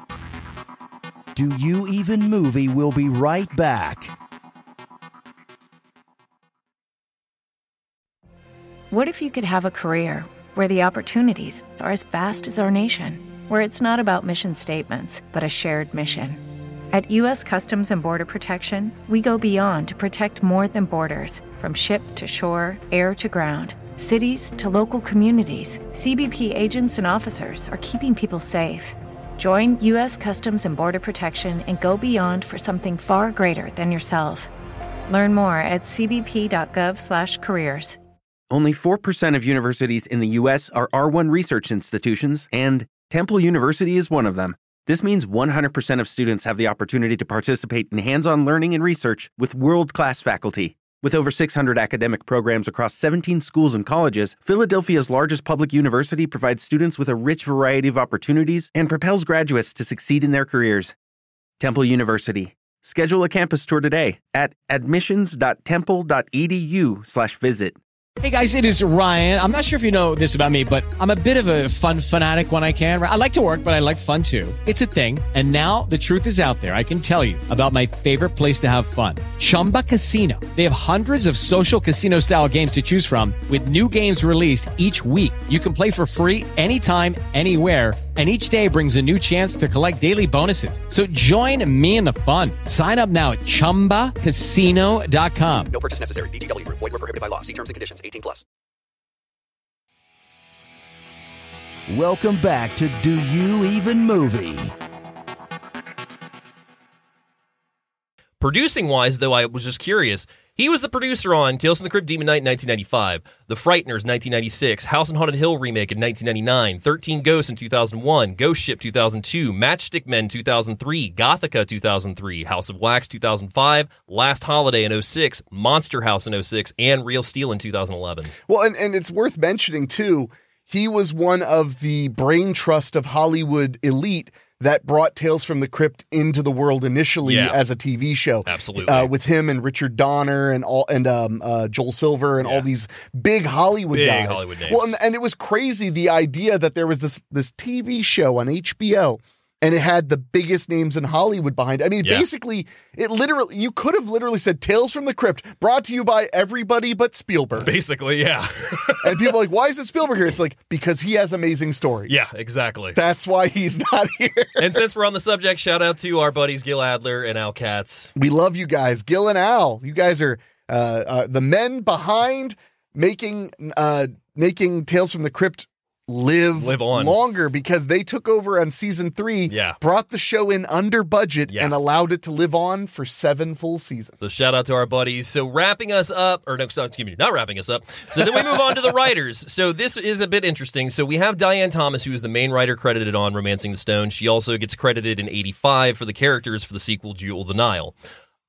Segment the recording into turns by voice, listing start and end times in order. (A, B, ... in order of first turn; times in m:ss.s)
0:01.3-0:04.1 A
0:08.9-0:34.5 B
0:35.1-0:38.0 B
0:38.5-1:00.9 C
1:01.6-1:07.8 C
1:08.2-1:35.7 D
1:35.7-1:38.4 E
1:41.9-1:44.7 A
1:48.4-2:08.3 F
2:08.5-2:37.7 G
2:17.2-2:17.6 F
2:18.4-2:19.1 F
2:22.4-2:22.7 F
2:23.9-2:24.9 F
2:37.6-2:39.3 F
2:39.0-2:42.3 G
2:42.1-2:43.0 F
2:42.9-2:44.8 G
2:44.6-2:48.1 F
2:48.2-3:04.2 G
2:56.6-2:57.2 F
2:59.5-2:59.8 F
3:01.5-3:01.8 F
3:04.2-3:17.9 F